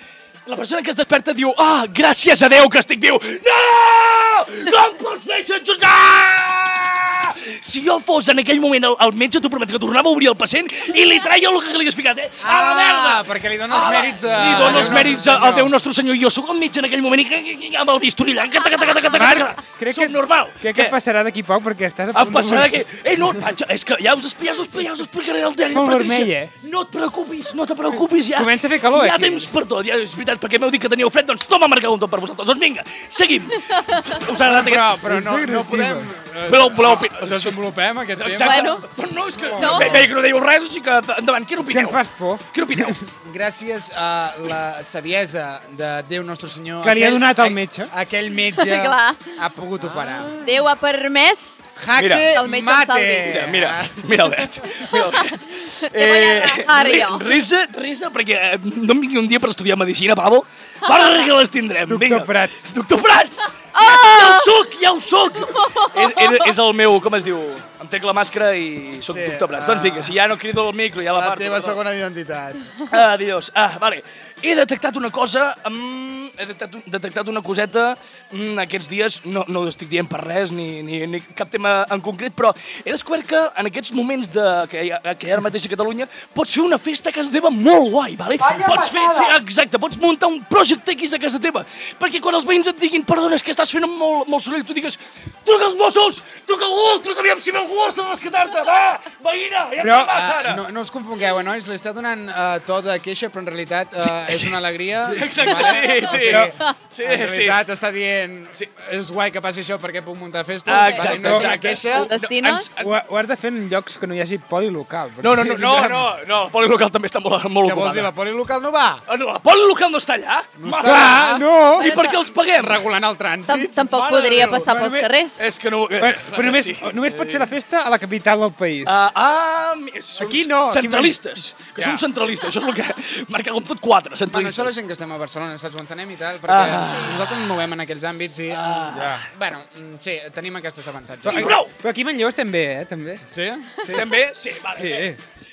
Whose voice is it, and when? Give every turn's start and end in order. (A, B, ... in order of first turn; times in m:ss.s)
0:00.4-0:21.0 A
0:12.4-0:15.7 B
0:14.7-0:14.9 C
0:19.1-0:22.8 C
0:22.1-0:34.9 A
0:25.7-0:26.5 C
0:28.4-0:29.5 C
0:33.7-0:34.2 D
0:34.4-0:38.8 B
0:35.0-0:36.1 C
0:36.5-0:37.6 A
0:38.2-0:43.0 A
0:38.4-0:38.8 D
0:39.4-0:39.9 C
0:39.6-0:40.0 D
0:39.7-0:40.1 B
0:41.6-0:42.4 C
0:43.1-0:50.4 B
0:46.8-0:47.9 C
0:48.5-0:49.4 D
0:49.8-0:50.4 C
0:50.4-0:51.7 D
0:51.8-0:54.4 B
0:51.9-0:52.3 A
0:52.2-0:53.5 D
0:53.2-1:11.8 A
0:55.1-0:57.4 D
1:01.9-1:02.6 C
1:03.7-1:04.5 D
1:05.4-1:06.5 D
1:09.0-1:10.1 B
1:11.1-1:12.7 B
1:12.9-1:40.6 A
1:28.4-1:29.3 C
1:39.8-1:40.1 C
1:40.1-1:52.1 B
1:44.0-1:44.5 A
1:45.1-1:47.6 A
1:45.5-1:46.7 D
1:50.6-1:53.0 A
1:50.7-1:51.1 D
1:51.0-1:51.5 C
1:51.9-1:52.7 D
1:52.8-1:56.1 C
1:55.2-1:58.1 A
1:57.6-1:59.0 B
1:59.1-2:02.8 A
2:00.6-2:01.5 B
2:00.8-2:01.9 C
2:01.7-2:02.3 D
2:02.5-2:03.8 B
2:03.4-2:05.4 D
2:03.9-2:05.1 C
2:05.4-2:07.5 A
2:06.0-2:08.9 C
2:08.8-2:14.7 A
2:10.2-2:11.2 C
2:11.7-2:12.0 C
2:14.3-2:21.6 B
2:16.5-2:17.4 A
2:16.9-2:17.2 D
2:18.5-2:19.2 A
2:18.9-2:19.2 C
2:21.2-2:21.7 A
2:21.2-2:23.2 C
2:23.3-2:23.7 B
2:23.8-2:25.1 A
2:24.7-2:25.2 C